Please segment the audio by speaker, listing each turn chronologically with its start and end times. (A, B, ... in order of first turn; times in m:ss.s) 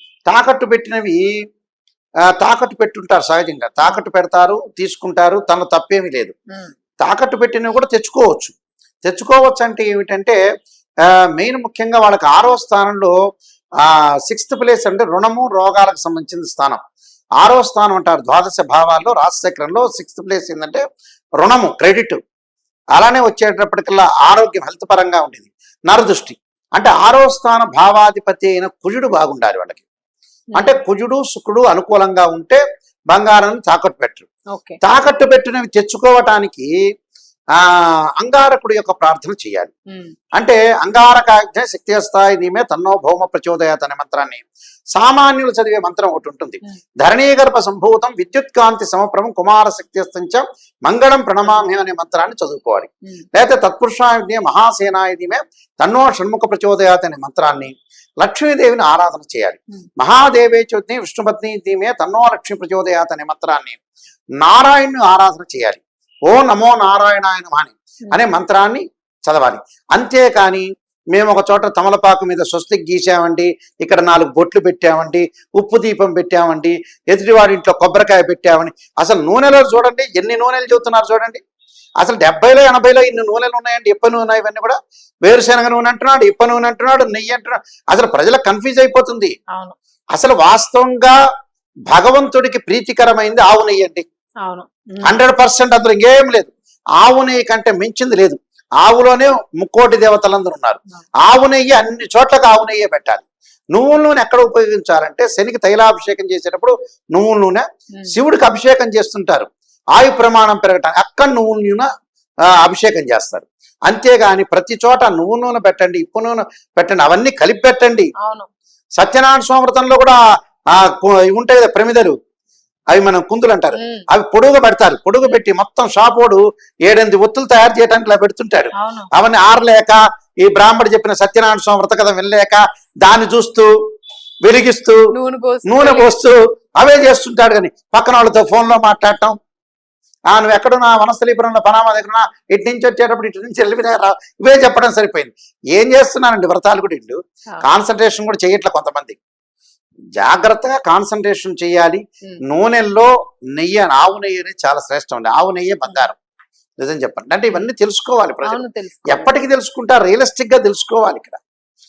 0:00.3-0:01.2 A
0:02.4-0:06.3 A
0:07.0-0:08.5 A
0:09.0-0:10.4 A
0:11.4-0:13.1 A
0:13.8-0:16.8 A
0:17.4-0:20.8 A
0:21.4-0:22.2 A
0:22.9-0:29.8 A
0:30.5-0:32.6 A
0:33.1-0:34.3 A
0:34.5-0:34.8 B
0:34.8-0:36.7 A
0:37.6-0:39.7 A
0:40.4-1:03.8 A
1:04.4-1:21.4 A
1:22.0-1:29.3 A
1:30.1-1:31.1 A
1:31.9-1:34.0 A
1:34.4-1:35.1 B
1:35.0-1:51.9 A
1:52.5-1:58.1 A
1:58.2-1:58.5 B
1:59.0-2:00.2 A
2:00.7-2:02.1 A
2:02.9-2:13.7 A
2:03.7-2:04.0 B
2:08.8-2:09.1 B
2:14.4-2:15.0 A
2:15.1-2:16.1 B
2:15.7-2:19.4 A
2:20.3-2:29.2 A
2:30.2-2:36.2 A
2:36.8-2:41.4 A
2:38.4-2:39.3 B